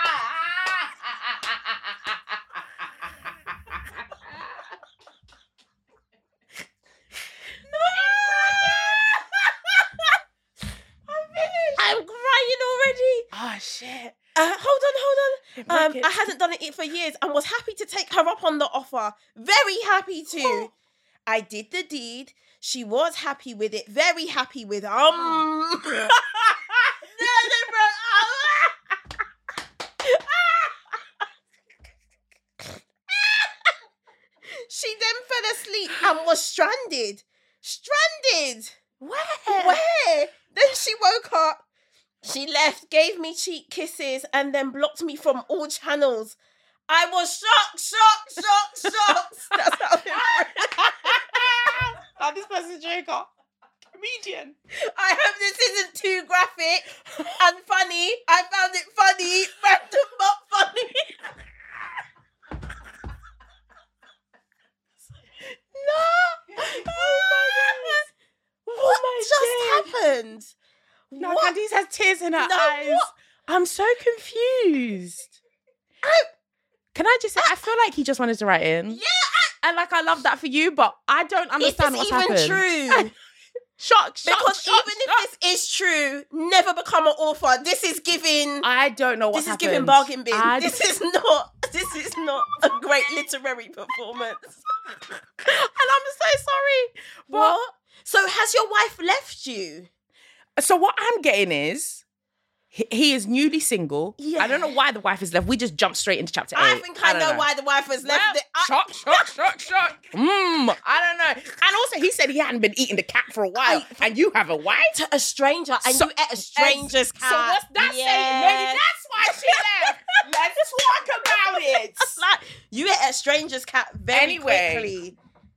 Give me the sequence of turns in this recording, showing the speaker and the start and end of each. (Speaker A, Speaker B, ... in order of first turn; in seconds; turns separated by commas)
Speaker A: 7.7-9.3, Speaker B: 8.4-9.0, Speaker A: 11.1-11.8, Speaker B: 11.7-13.3, Speaker A: 13.3-14.2, Speaker B: 14.3-20.7, Speaker A: 15.6-16.1, Speaker B: 21.2-28.7, Speaker A: 25.1-25.4, Speaker B: 30.0-30.7, Speaker B: 33.1-33.5, Speaker B: 34.5-38.7, Speaker A: 39.0-39.8, Speaker B: 39.5-41.6, Speaker B: 42.2-46.4, Speaker B: 46.9-51.2, Speaker A: 50.2-53.3, Speaker A: 53.9-54.5, Speaker B: 54.7-61.2, Speaker B: 65.8-68.0, Speaker A: 66.5-68.1, Speaker A: 68.7-69.9, Speaker B: 68.8-70.5, Speaker B: 71.1-71.5, Speaker A: 71.2-75.3, Speaker B: 72.4-73.1, Speaker B: 76.0-76.3, Speaker A: 76.9-79.0, Speaker B: 78.9-79.5, Speaker A: 79.6-83.1, Speaker B: 81.6-83.1, Speaker A: 83.8-85.2, Speaker B: 84.2-88.7, Speaker A: 88.6-90.9, Speaker B: 89.3-94.6, Speaker A: 95.5-97.5, Speaker B: 97.3-99.9, Speaker A: 100.6-102.0, Speaker A: 102.7-107.5, Speaker B: 104.2-104.7, Speaker B: 106.5-109.2, Speaker A: 108.0-114.9, Speaker B: 113.6-114.1, Speaker B: 114.9-120.0, Speaker A: 115.8-122.2, Speaker B: 121.2-125.2, Speaker A: 124.1-124.9